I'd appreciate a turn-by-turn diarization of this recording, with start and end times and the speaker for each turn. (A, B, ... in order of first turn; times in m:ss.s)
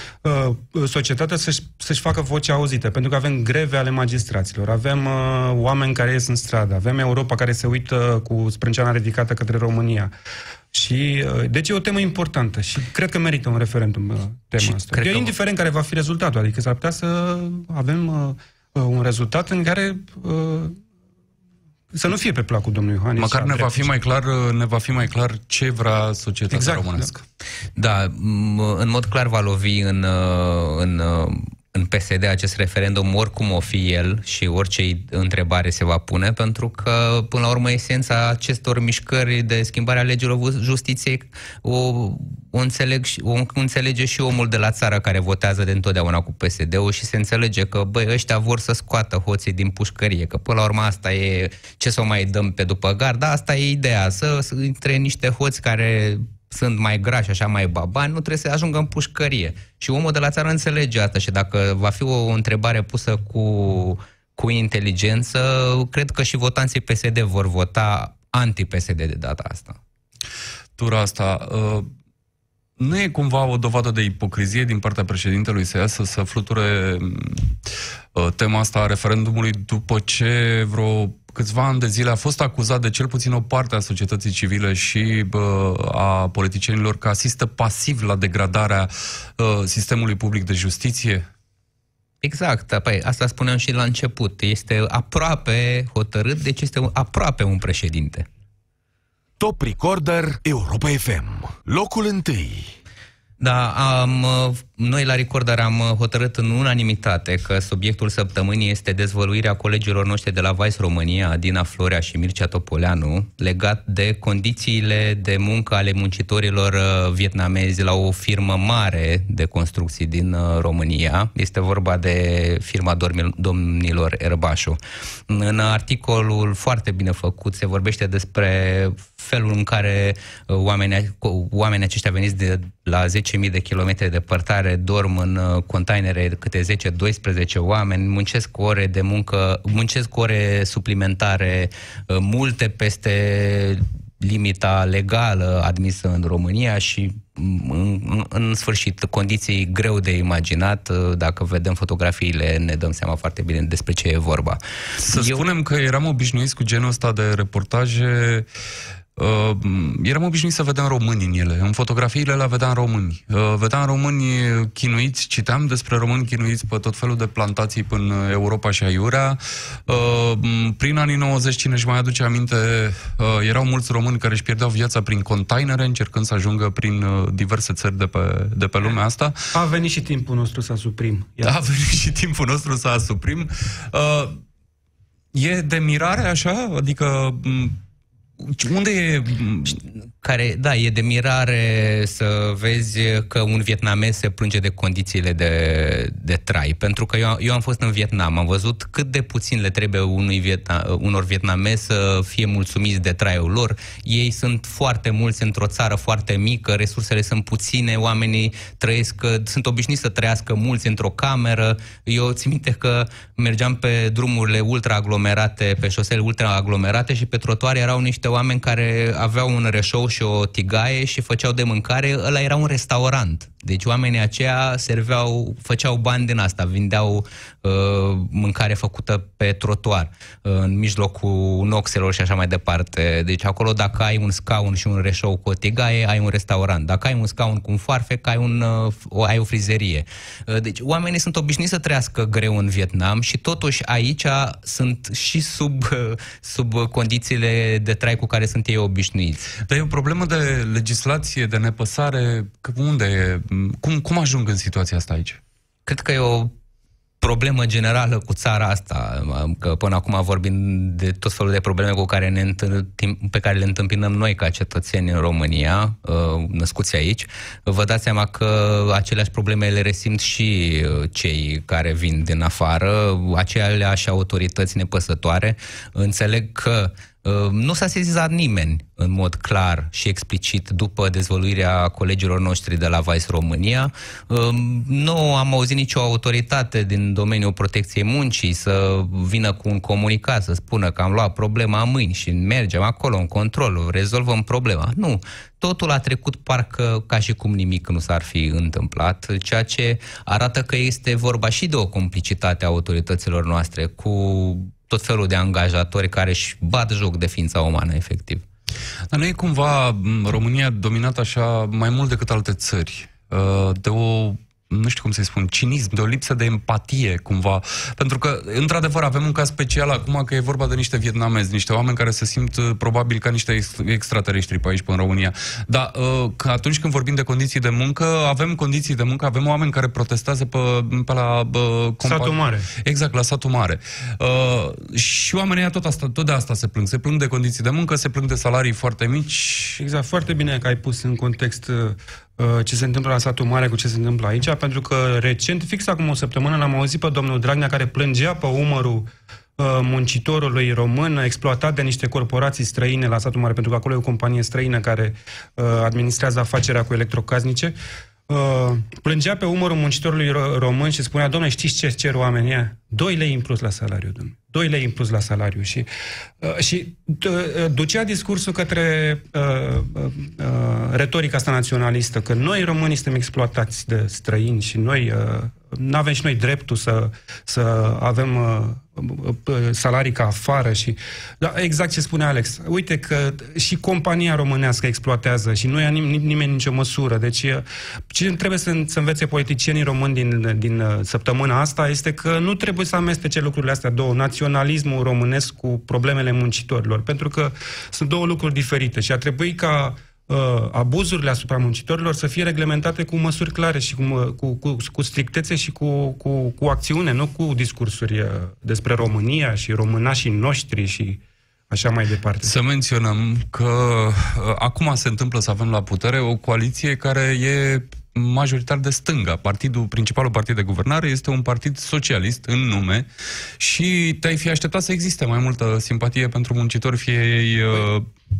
0:00.2-0:10.1 A
0:10.7-0:20.8 A
0:14.6-0:15.3 B
0:21.9-0:23.9 A
0:23.2-0:27.2 C
0:26.5-0:27.1 A
0:27.8-1:09.8 B
1:10.8-1:11.9 C
1:12.8-1:17.6 C
1:18.1-1:31.2 C
1:32.2-1:38.2 B
1:39.4-1:42.7 D
1:43.4-2:35.4 B
2:35.0-2:38.5 C
2:39.2-2:59.4 C
2:59.5-3:01.5 A
3:01.4-3:04.4 C
3:05.3-3:07.8 C
3:08.4-3:09.8 C
3:10.2-4:09.5 B
4:09.6-4:15.4 C
4:15.8-4:16.5 B
4:17.2-5:08.4 B
5:09.1-5:39.8 C
5:32.0-5:32.7 A
5:39.8-5:57.7 A
5:58.3-6:05.9 A
6:06.4-6:52.5 A
6:52.4-7:03.1 C
7:03.6-7:08.1 C